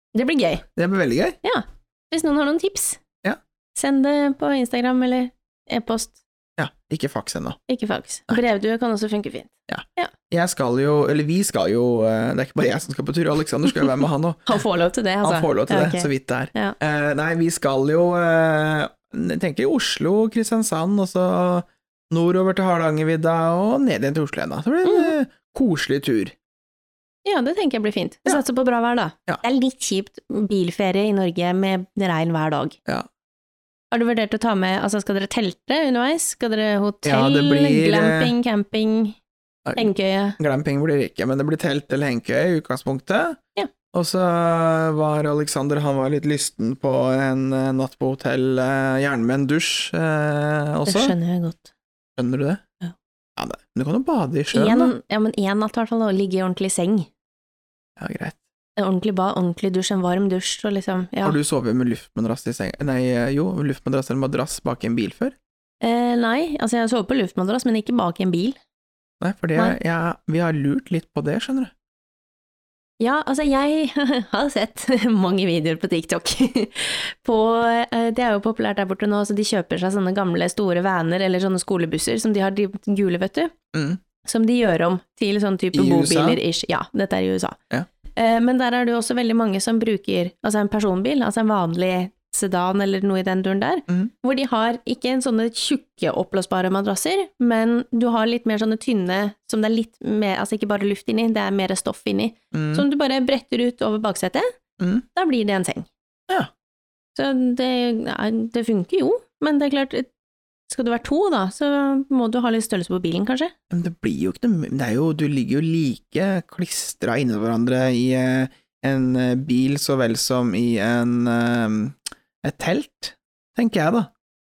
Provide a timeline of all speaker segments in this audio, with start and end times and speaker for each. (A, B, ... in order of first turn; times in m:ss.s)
0:00.1-0:00.6 A
0:00.8-0:01.4 B
0:01.4-0:03.0 A
0:03.7-0:06.2 A
0:06.6-0:07.6 B
0:07.7-0:10.1 A
0:09.7-0:14.5 B
0:14.4-0:16.8 A
0:15.2-0:26.3 B
0:24.8-0:25.1 A
0:27.2-0:32.8 A
0:33.9-0:39.2 A
0:37.0-0:38.3 B
0:39.6-0:43.4 B
0:39.8-0:40.4 A
0:43.9-0:51.1 B
0:50.9-0:51.7 A
0:52.2-0:52.6 B
0:53.4-0:54.9 B
0:54.5-0:57.1 A
0:58.0-0:58.4 B
0:58.8-1:01.4 A
1:01.2-1:05.3 B
1:05.8-1:08.6 A
1:09.2-1:11.7 B
1:13.0-1:23.5 A
1:23.7-1:24.0 B
1:24.2-1:27.6 A
1:25.7-1:26.4 B
1:28.1-1:44.5 A
1:42.5-1:42.8 B
1:44.8-1:45.0 B
1:45.1-1:45.9 A
1:47.1-1:50.1 A
1:50.7-1:53.5 A
1:53.7-2:04.1 B